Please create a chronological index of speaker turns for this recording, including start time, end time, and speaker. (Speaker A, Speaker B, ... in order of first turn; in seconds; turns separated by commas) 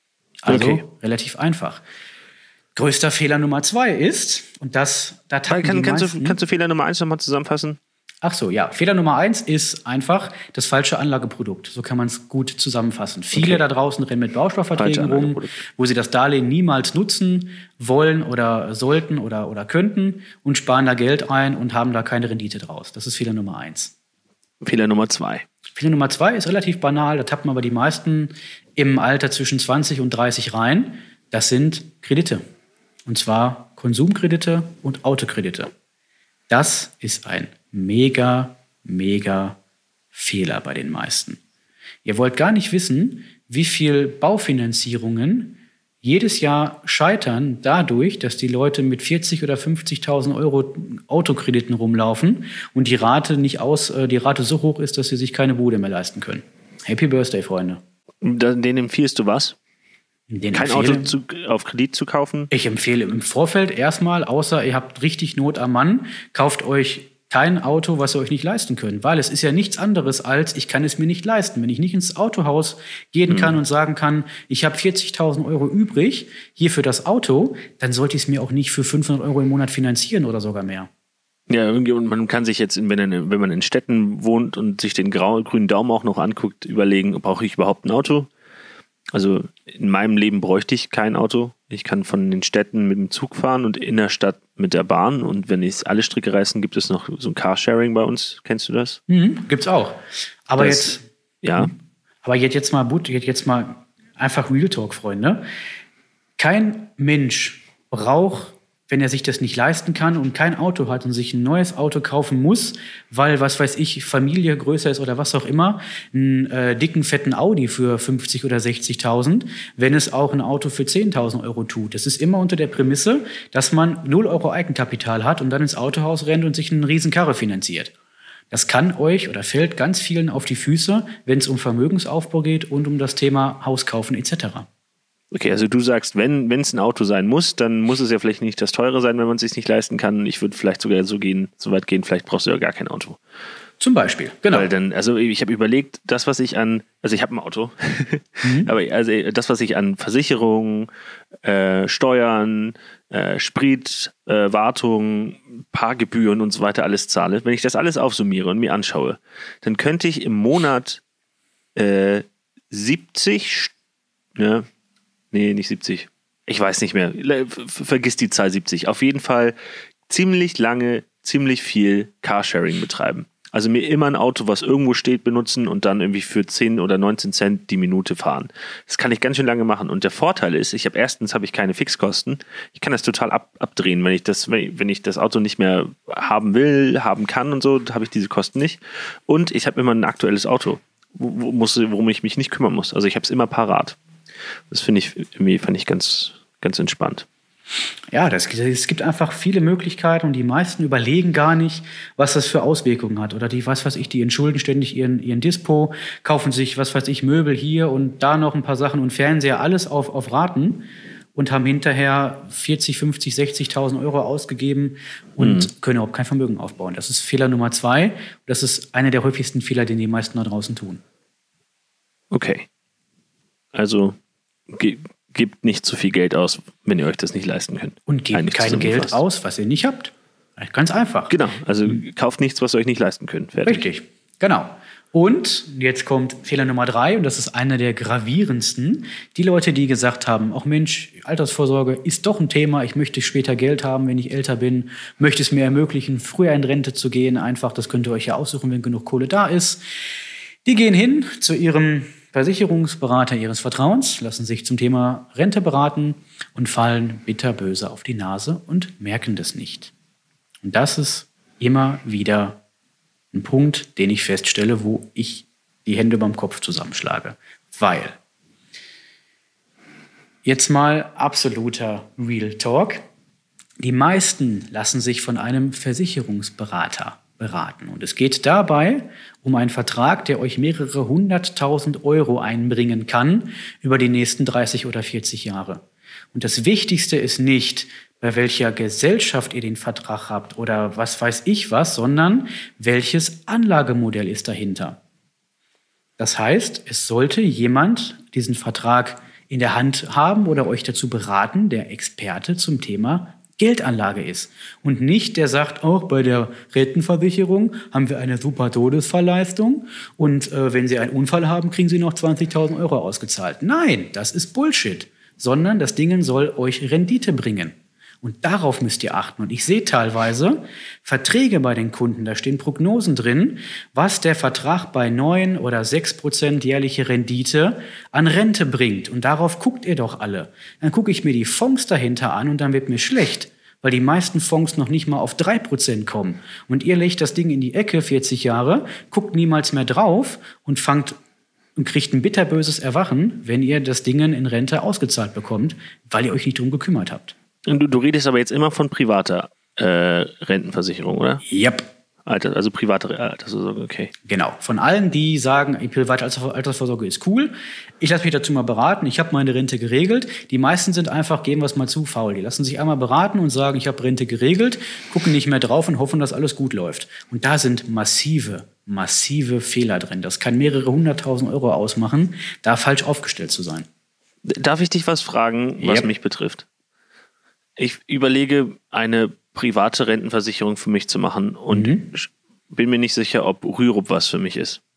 Speaker A: 0.4-1.8, Speaker B: 0.5-0.8, Speaker A: 2.7-6.4, Speaker B: 5.5-7.8, Speaker A: 8.2-23.9, Speaker B: 14.7-15.6, Speaker B: 24.6-25.4, Speaker A: 25.7-32.4, Speaker A: 33.0-35.7, Speaker A: 36.5-39.6, Speaker A: 40.1-41.4, Speaker A: 42.0-57.8, Speaker B: 58.2-59.5, Speaker A: 60.3-61.1, Speaker B: 60.5-62.5, Speaker A: 62.5-80.9, Speaker B: 73.3-73.6, Speaker B: 81.5-88.3, Speaker B: 89.1-99.0, Speaker A: 99.1-101.7, Speaker B: 100.6-101.7, Speaker A: 102.2-105.4, Speaker A: 106.4-127.9, Speaker A: 128.5-134.7, Speaker B: 135.3-143.2, Speaker A: 143.8-144.7, Speaker B: 144.5-150.9, Speaker A: 148.4-148.7, Speaker B: 151.4-161.0, Speaker B: 161.8-163.7, Speaker B: 164.3-164.6, Speaker B: 165.3-169.6, Speaker B: 170.1-194.0, Speaker B: 194.7-197.2, Speaker A: 198.1-221.0, Speaker B: 215.4-215.7, Speaker B: 222.3-222.7, Speaker B: 223.7-224.2, Speaker B: 224.7-229.2, Speaker A: 228.1-231.3, Speaker B: 231.3-233.8, Speaker A: 233.6-249.8, Speaker A: 250.6-259.9, Speaker A: 260.6-262.6, Speaker A: 263.3-268.2, Speaker A: 270.4-273.0, Speaker A: 273.8-295.0, Speaker A: 296.2-341.2, Speaker A: 341.8-347.3, Speaker B: 347.7-351.4, Speaker A: 351.4-351.9, Speaker B: 352.2-354.1, Speaker A: 354.2-373.9, Speaker B: 374.4-376.6, Speaker A: 375.8-376.1, Speaker B: 377.8-384.8, Speaker A: 381.7-382.1